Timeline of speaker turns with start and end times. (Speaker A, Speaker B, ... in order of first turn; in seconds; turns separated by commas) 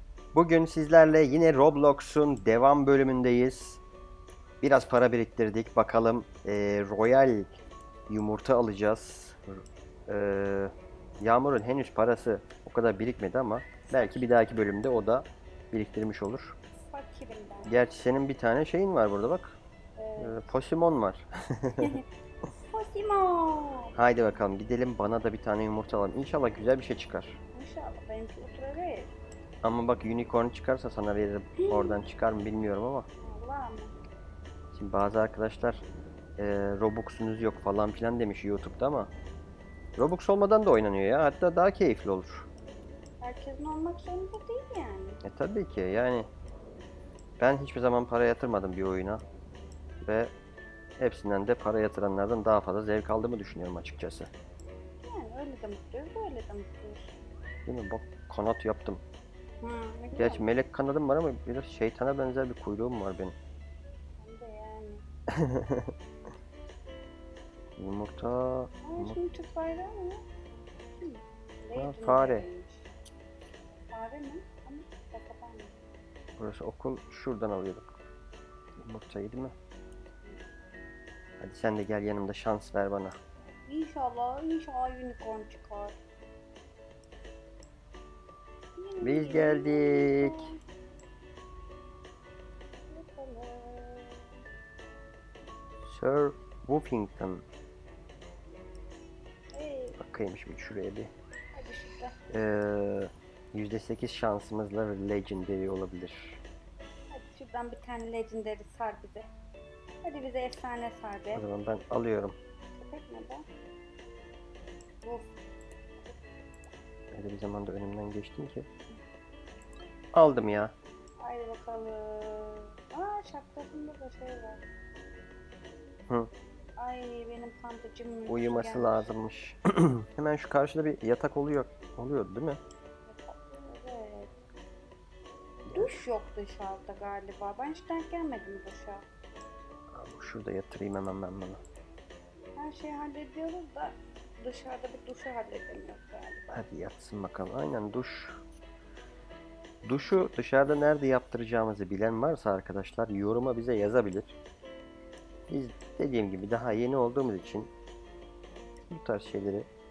Speaker A: 0.3-3.8, Speaker A: 4.6-16.6, Speaker B: 13.9-14.2, Speaker B: 16.9-17.8, Speaker A: 17.7-19.6, Speaker B: 20.0-20.5, Speaker A: 20.2-22.0, Speaker B: 22.7-23.9, Speaker A: 24.0-27.4, Speaker B: 27.5-29.1, Speaker A: 29.6-33.1, Speaker B: 31.6-32.0, Speaker B: 33.2-33.9, Speaker A: 34.7-35.8, Speaker A: 36.4-39.1, Speaker A: 40.0-42.5, Speaker B: 43.2-45.2, Speaker A: 45.2-46.3, Speaker A: 47.4-49.2, Speaker A: 50.0-50.3, Speaker A: 51.0-54.3, Speaker B: 55.0-57.1, Speaker A: 57.7-59.0, Speaker B: 59.6-60.5, Speaker A: 60.1-63.4, Speaker B: 64.2-65.0, Speaker A: 65.3-65.9, Speaker A: 67.8-69.2, Speaker B: 68.8-70.3, Speaker B: 71.0-72.9, Speaker A: 71.8-72.5, Speaker B: 73.9-75.8, Speaker A: 76.4-78.0, Speaker A: 78.8-79.5, Speaker A: 81.4-83.2, Speaker B: 83.7-86.0, Speaker B: 88.8-90.6, Speaker A: 89.0-90.5, Speaker B: 92.9-94.4, Speaker A: 95.8-97.5, Speaker B: 99.5-100.0, Speaker A: 100.0-101.1, Speaker B: 101.5-102.2, Speaker A: 102.3-106.4, Speaker B: 107.1-109.3, Speaker B: 110.0-111.4, Speaker A: 111.3-112.4, Speaker B: 112.8-113.5, Speaker B: 115.0-115.3, Speaker A: 117.1-118.7, Speaker A: 120.1-120.7, Speaker B: 121.2-124.6, Speaker B: 126.8-129.1, Speaker A: 128.3-132.6, Speaker B: 133.1-134.4, Speaker B: 135.7-139.1, Speaker A: 135.7-136.0, Speaker A: 139.9-141.6, Speaker B: 142.6-146.5, Speaker A: 146.5-148.4, Speaker A: 149.8-154.4, Speaker A: 155.5-157.7, Speaker A: 158.9-159.7